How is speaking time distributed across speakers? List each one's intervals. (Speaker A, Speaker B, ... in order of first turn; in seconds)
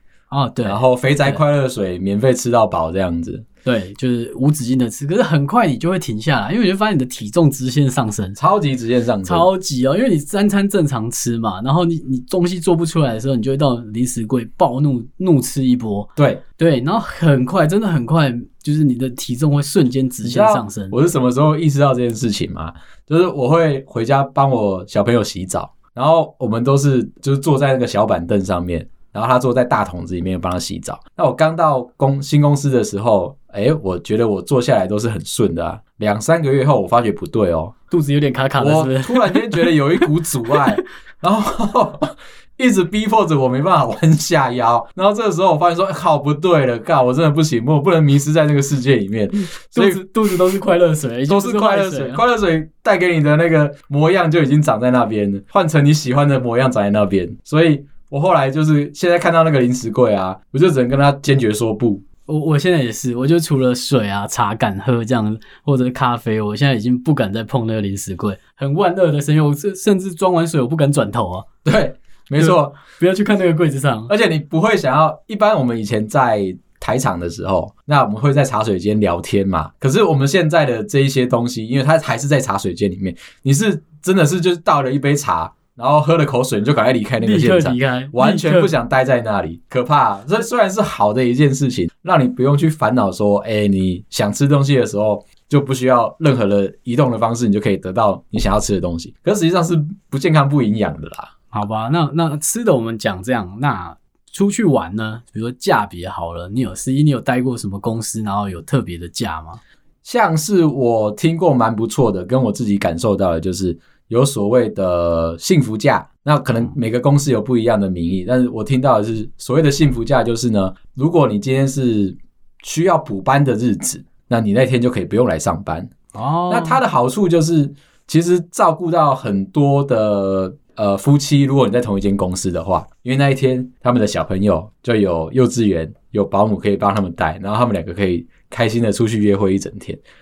Speaker A: 0.3-1.4, 3.6-8.4, 9.2-20.9, 37.9-40.6, 49.7-52.2, 62.3-71.5, 72.4-74.1, 87.2-88.7, 101.5-109.6, 126.1-126.8
Speaker B: 0.6-3.5, 8.4-9.5, 16.2-16.4, 20.2-37.7, 38.6-50.0, 51.3-62.0, 71.6-72.8, 74.1-101.3, 110.0-125.9, 126.5-140.0